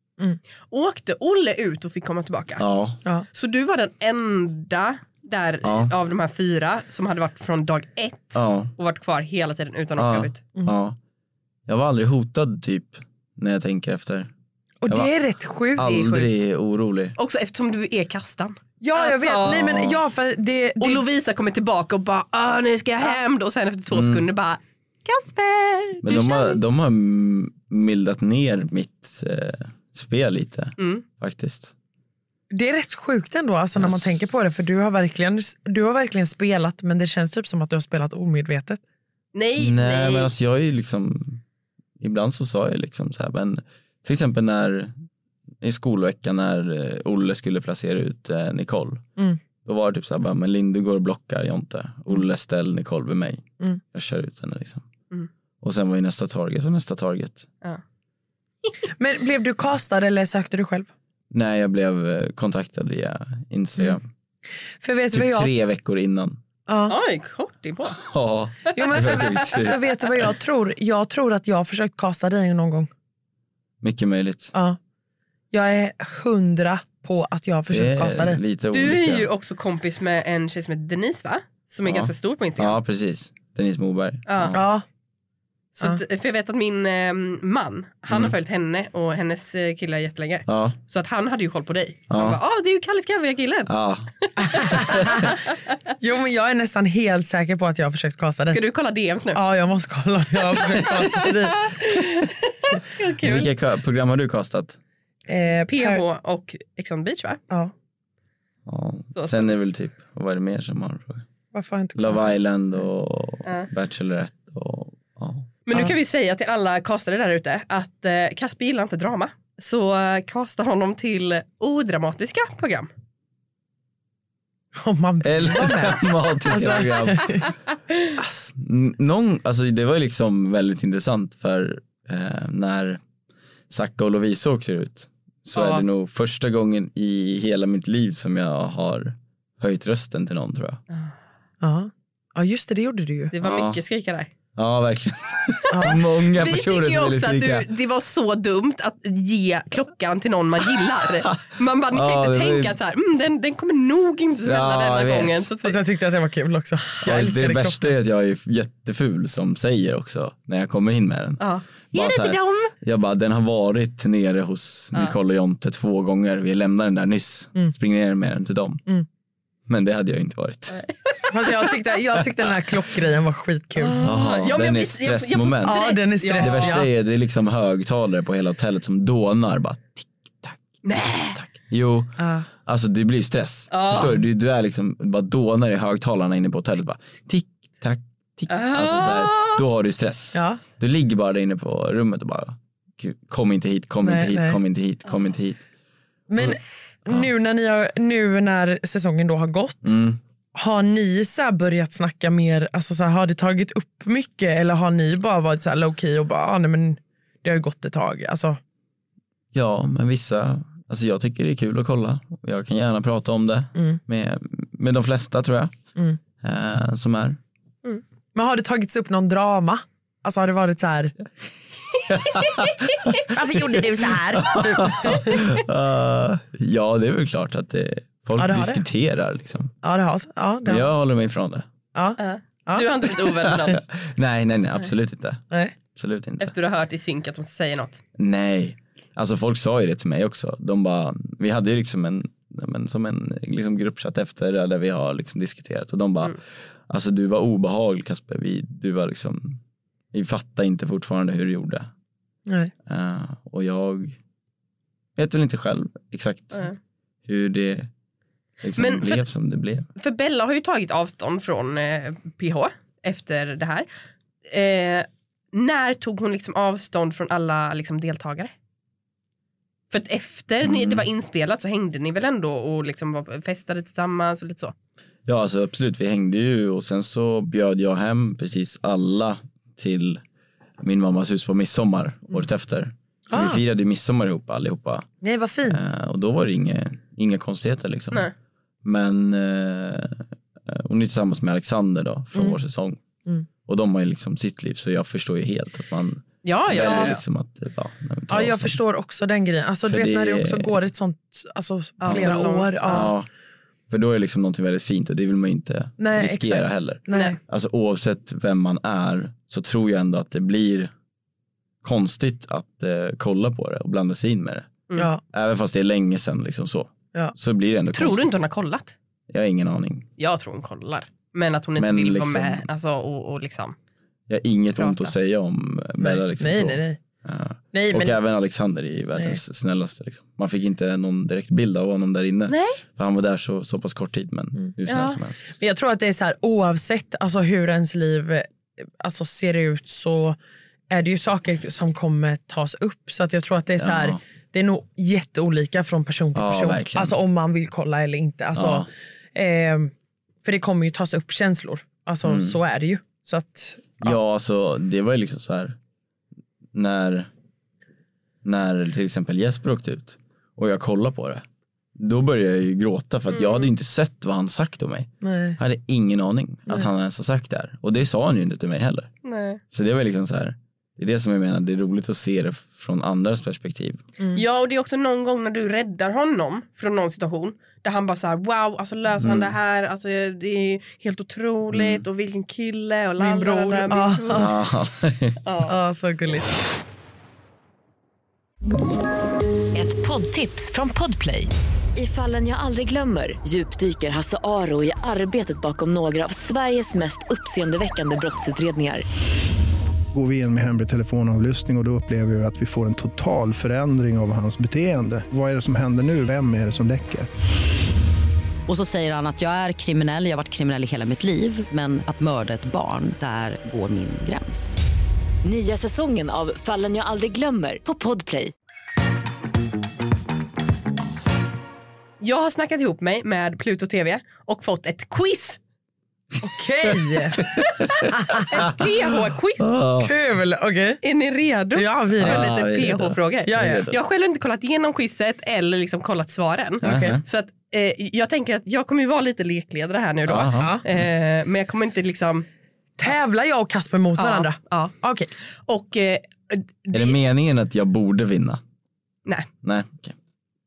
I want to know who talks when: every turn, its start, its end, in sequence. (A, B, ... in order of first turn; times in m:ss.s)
0:00.7-0:02.6 A
0:02.6-0:03.0 B
0:03.3-0:10.4 A
0:05.6-0:05.9 B
0:08.3-0:08.7 B
0:10.0-0:11.0 B
0:11.7-0:14.3 B
0:14.8-0:16.2 C
0:15.7-0:17.2 B
0:15.9-0:16.2 A
0:17.2-0:19.9 A
0:18.8-0:21.0 C
0:20.8-0:26.6 A
0:23.9-0:24.2 B
0:26.0-0:31.7 B
0:30.8-0:31.0 A
0:32.5-0:38.8 C
0:33.8-0:34.4 B
0:39.3-0:40.3 A
0:39.6-0:41.4 B
0:42.0-0:44.9 B
0:45.6-0:49.0 B
0:49.6-0:54.8 B
0:55.6-0:57.5 B
0:59.0-1:00.9 C
1:01.3-1:04.1 B
1:04.8-1:05.5 C
1:05.1-1:06.4 B
1:06.7-1:07.0 C
1:06.9-1:08.0 A
1:08.0-1:10.2 B
1:08.7-1:12.9 C
1:13.8-1:14.5 B
1:15.5-1:18.4 C
1:17.7-1:19.3 B
1:18.7-1:22.8 A
1:21.8-1:24.7 B
1:24.3-1:24.6 A
1:24.5-1:24.8 C
1:25.8-1:35.4 A
1:28.1-1:28.3 B
1:30.5-1:30.8 B
1:32.1-1:32.4 B
1:33.6-1:35.2 B
1:34.4-1:35.3 C
1:36.0-1:38.6 C
1:38.5-1:39.4 A
1:39.3-1:41.7 C
1:40.7-1:43.5 A
1:43.2-1:44.8 B
1:45.3-1:46.0 C
1:45.7-1:47.4 A
1:48.6-1:51.2 B
1:49.2-1:49.4 A
1:51.5-1:52.3 C
1:51.9-1:55.5 B
1:55.6-2:02.9 A
2:04.8-2:07.5 C
2:05.2-2:07.5 B
2:08.2-2:13.0 B
2:13.7-2:20.8 B
2:15.5-2:15.8 A
2:21.6-2:23.3 C
2:23.3-2:24.3 A
2:23.4-2:23.8 B
2:24.5-2:27.6 B
2:25.7-2:26.0 C
2:25.8-2:35.8 A
2:31.9-2:32.8 B
2:34.4-2:35.5 B
2:35.6-2:37.9 C
2:37.0-2:48.8 B
2:41.4-2:42.7 A
2:49.7-2:50.8 B
2:50.7-2:51.2 A
2:51.3-2:54.0 C
2:53.8-2:56.8 A
2:54.0-3:15.6 B
2:55.6-2:56.8 C
3:00.8-3:01.4 A
3:02.2-3:02.5 C
3:03.7-3:04.2 A
3:08.5-3:09.6 A
3:10.3-3:10.6 C
3:14.0-3:14.6 C
3:16.3-3:19.9 C
3:16.4-3:17.3 B
3:19.8-3:20.2 B
3:20.5-3:28.6 C
3:29.5-3:35.7 B
3:36.4-3:37.4 B
3:38.3-3:41.1 C
3:42.1-3:43.1 B
3:43.3-3:45.5 C
3:44.1-3:49.7 B
3:48.4-3:48.8 C
3:49.8-3:50.9 C
3:50.6-3:51.7 B
3:51.9-3:52.9 C
3:52.2-3:53.8 A
3:53.5-3:56.5 B
3:56.4-3:58.0 A
3:58.2-4:09.6 B
4:10.1-4:11.9 B
4:12.5-4:12.7 C
4:12.8-4:14.2 B
4:15.2-4:16.7 B
4:17.2-4:17.9 B
4:18.6-4:19.9 B
4:18.8-4:19.2 A
4:20.0-4:23.9 A
4:24.5-4:28.5 A
4:29.9-4:34.7 A
4:30.6-4:31.0 B
4:35.2-4:40.2 B
4:40.8-4:45.1 B
4:43.3-4:43.6 C
4:45.2-4:45.8 C
4:45.6-4:48.3 B
4:48.8-4:53.0 B
4:53.6-4:58.8 B
4:56.4-4:57.2 A
4:58.3-5:03.1 C
4:59.8-5:00.8 B
5:02.0-5:03.1 A
5:02.0-5:02.3 B
5:02.9-5:03.3 B
5:03.9-5:10.9 B
5:06.0-5:07.4 C
5:11.8-5:14.7 B
5:15.0-5:15.2 C
5:15.3-5:18.4 B
5:17.9-5:18.9 A
5:19.3-5:20.1 B
5:20.2-5:23.8 A
5:21.8-5:22.7 B
5:24.3-5:35.6 B
5:24.8-5:25.1 A
5:26.0-5:27.0 C
5:27.7-5:28.2 C
5:32.5-5:32.8 A
5:34.9-5:35.2 A
5:35.6-5:38.5 C
5:39.0-5:40.4 C
5:40.9-5:49.9 C
5:43.8-5:44.2 B
5:46.3-5:47.2 B
5:48.5-5:48.9 B
5:50.4-5:54.1 C
5:52.2-5:52.6 B
5:54.0-5:55.8 B
5:56.7-5:57.3 B
5:58.4-6:01.4 B
6:02.0-6:09.1 B
6:03.3-6:03.7 A
6:05.2-6:05.6 C
6:09.2-6:09.6 A
6:09.7-6:14.0 B
6:14.3-6:24.5 A
6:19.2-6:19.5 B
6:21.7-6:22.0 B
6:23.2-6:24.5 C
6:24.3-6:25.4 B
6:25.4-6:25.7 A
6:25.7-6:26.5 C
6:29.7-6:39.0 D
6:40.1-6:47.3 E
6:48.7-6:54.8 F
6:55.4-6:58.5 D
7:02.2-7:05.6 A
7:06.4-7:07.4 C
7:07.4-7:08.9 B
7:08.0-7:08.4 C
7:08.5-7:09.7 A
7:09.6-7:10.1 B
7:10.0-7:11.0 C
7:11.0-7:22.4 A
7:11.8-7:12.4 C
7:12.2-7:14.0 B
7:13.4-7:13.8 C
7:16.8-7:17.2 B
7:16.8-7:17.1 C
7:20.2-7:21.0 B
7:20.5-7:20.8 C
7:23.0-7:25.3 C
7:24.2-7:24.9 A
7:25.6-7:27.1 A
7:26.9-7:28.6 B
7:29.6-7:30.2 B